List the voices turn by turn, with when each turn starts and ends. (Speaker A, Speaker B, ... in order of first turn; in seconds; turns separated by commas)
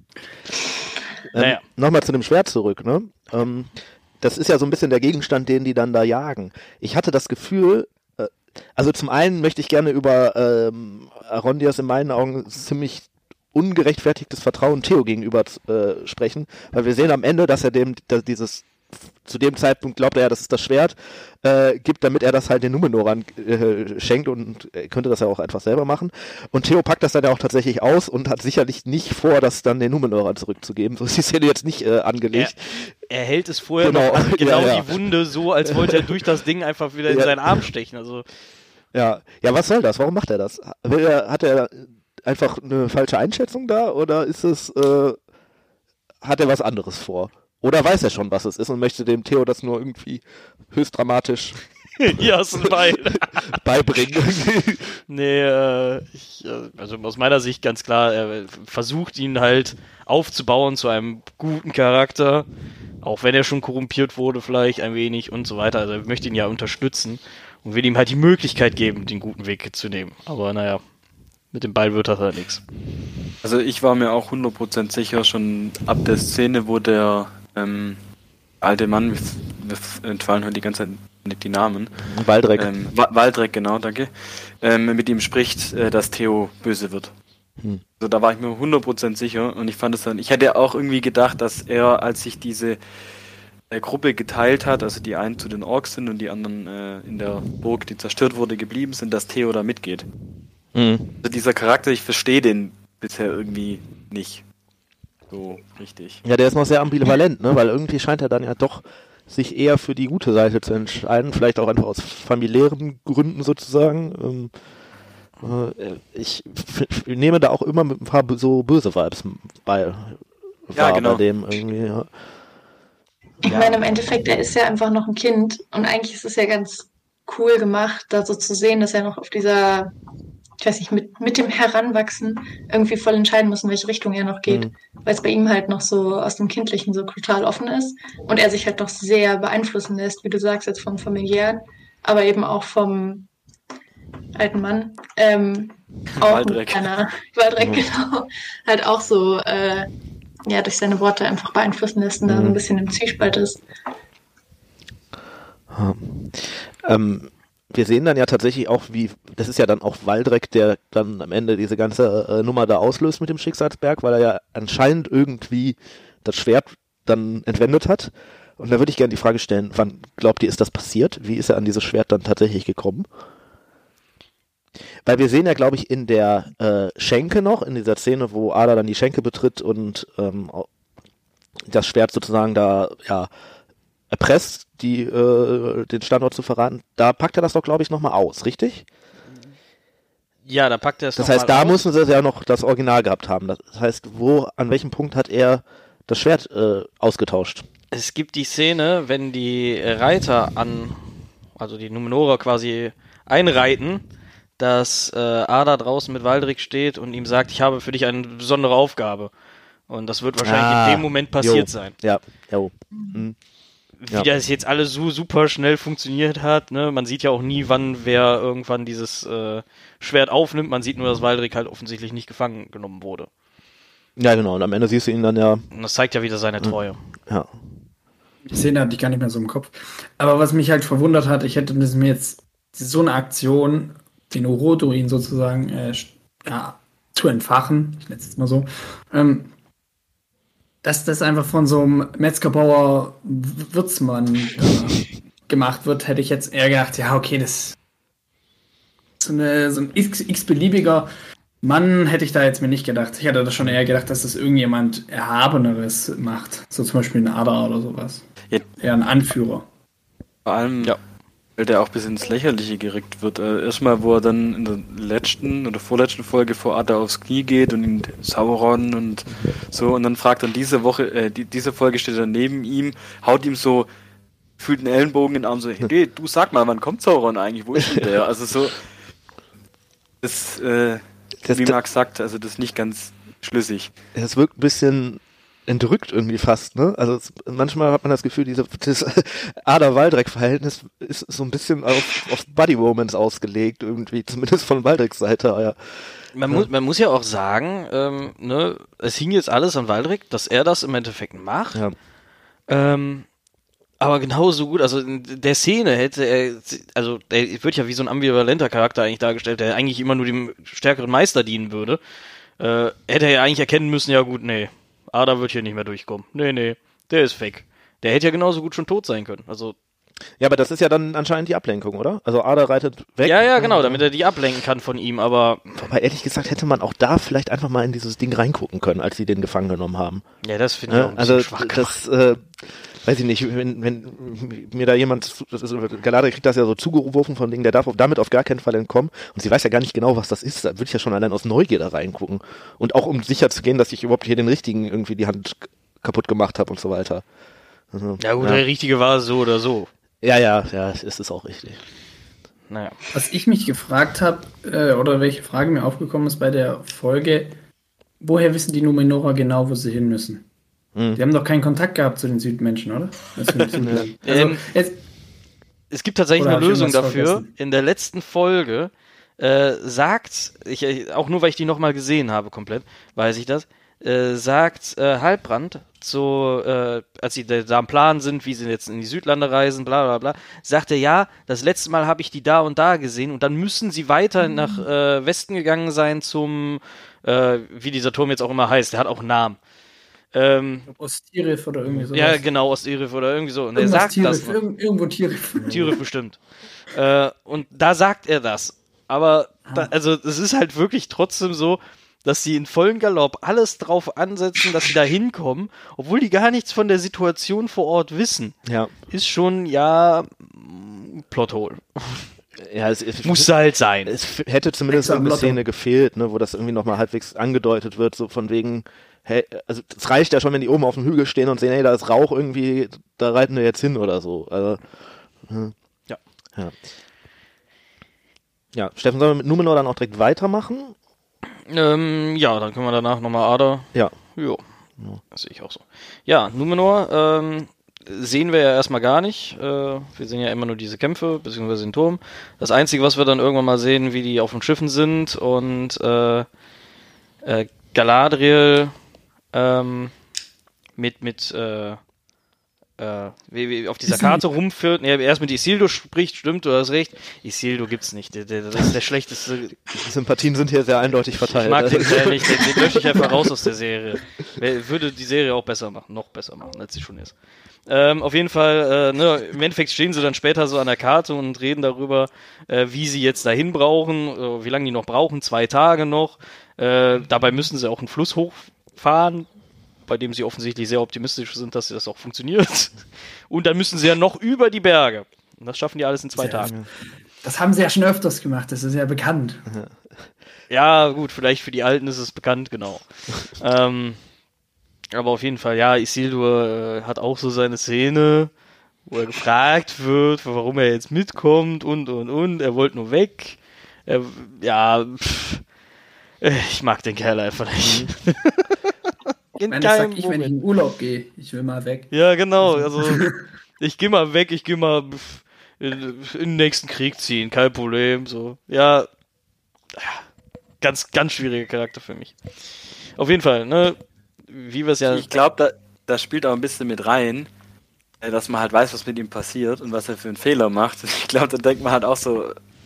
Speaker A: 1.3-32.9, Speaker B: 1.3-1.6, Speaker B: 33.1-38.2, Speaker A: 33.8-35.0, Speaker A: 35.7-36.1, Speaker A: 37.1-37.4, Speaker A: 38.9-45.2, Speaker A: 46.2-51.6, Speaker B: 52.0-53.6, Speaker A: 52.6-55.0, Speaker B: 55.1-62.5, Speaker B: 63.0-70.8, Speaker B: 71.5-72.6, Speaker C: 73.4-78.0, Speaker C: 78.6-82.0, Speaker A: 82.1-82.7, Speaker C: 82.5-87.1, Speaker C: 88.0-92.8, Speaker C: 93.7-100.1, Speaker A: 100.7-101.2, Speaker C: 101.2-104.4, Speaker C: 105.3-106.2, Speaker A: 106.2-114.5, Speaker A: 115.4-122.1, Speaker C: 120.7-121.2, Speaker D: 123.4-129.9, Speaker D: 130.6-143.3, Speaker D: 144.3-149.9, Speaker C: 146.2-146.9, Speaker A: 147.6-147.8, Speaker D: 150.4-153.6, Speaker A: 152.2-152.6, Speaker A: 155.7-173.1, Speaker A: 175.0-180.7, Speaker A: 181.7-183.3, Speaker A: 184.1-188.8, Speaker B: 190.4-191.8, Speaker A: 191.2-197.6, Speaker B: 197.9-204.0, Speaker B: 204.6-209.3, Speaker B: 209.9-211.9, Speaker A: 210.4-213.3, Speaker D: 212.9-213.2, Speaker B: 214.0-223.3, Speaker A: 224.2-225.7, Speaker B: 225.7-227.0, Speaker A: 226.6-227.5, Speaker E: 228.5-239.5, Speaker E: 240.8-247.8, Speaker E: 249.2-251.1, Speaker E: 251.6-258.2, Speaker E: 258.8-259.6, Speaker C: 260.4-260.9, Speaker C: 261.6-273.9, Speaker C: 274.6-278.8, Speaker C: 280.2-283.9, Speaker A: 281.4-281.7, Speaker A: 284.1-295.8, Speaker B: 296.3-301.8, Speaker B: 302.7-303.2, Speaker B: 304.0-312.0, Speaker B: 312.6-319.8, Speaker A: 320.4-324.0, Speaker B: 323.2-325.8, Speaker A: 325.8-330.2, Speaker B: 330.4-331.9, Speaker A: 330.9-347.2, Speaker A: 347.9-348.6, Speaker B: 348.2-349.9, Speaker A: 350.2-351.8, Speaker B: 352.7-352.9, Speaker E: 353.1-357.5, Speaker E: 358.2-360.4, Speaker A: 360.9-361.2, Speaker E: 361.1-365.0, Speaker A: 363.8-364.1, Speaker B: 364.2-364.6, Speaker B: 365.9-389.6, Speaker E: 366.4-367.5, Speaker B: 390.3-390.9, Speaker E: 390.9-392.4, Speaker B: 392.1-394.6, Speaker E: 393.8-395.9, Speaker B: 395.7-396.4, Speaker B: 396.9-408.5, Speaker A: 408.6-408.9, Speaker B: 409.1-412.3, Speaker A: 412.6-413.5, Speaker B: 413.2-414.1, Speaker A: 414.0-424.9, Speaker E: 414.9-415.6, Speaker A: 425.4-425.7, Speaker A: 428.7-430.9, Speaker B: 431.7-434.6, Speaker B: 435.3-446.4, Speaker B: 447.4-448.9, Speaker B: 449.5-450.1, Speaker B: 451.0-452.0, Speaker B: 453.0-459.8, Speaker A: 459.9-463.3, Speaker B: 461.4-467.3, Speaker B: 467.9-479.5, Speaker B: 480.1-486.7, Speaker E: 486.4-486.7, Speaker E: 487.4-489.6, Speaker A: 489.7-490.0, Speaker B: 490.7-494.2, Speaker B: 495.1-498.5, Speaker B: 499.1-505.6, Speaker B: 506.4-510.5, Speaker A: 507.8-508.1, Speaker E: 509.7-512.1, Speaker B: 512.1-513.2, Speaker E: 512.8-513.4, Speaker B: 513.8-519.1, Speaker B: 519.9-520.2, Speaker B: 520.8-522.3, Speaker B: 523.1-525.3, Speaker C: 525.1-527.5, Speaker C: 528.2-532.5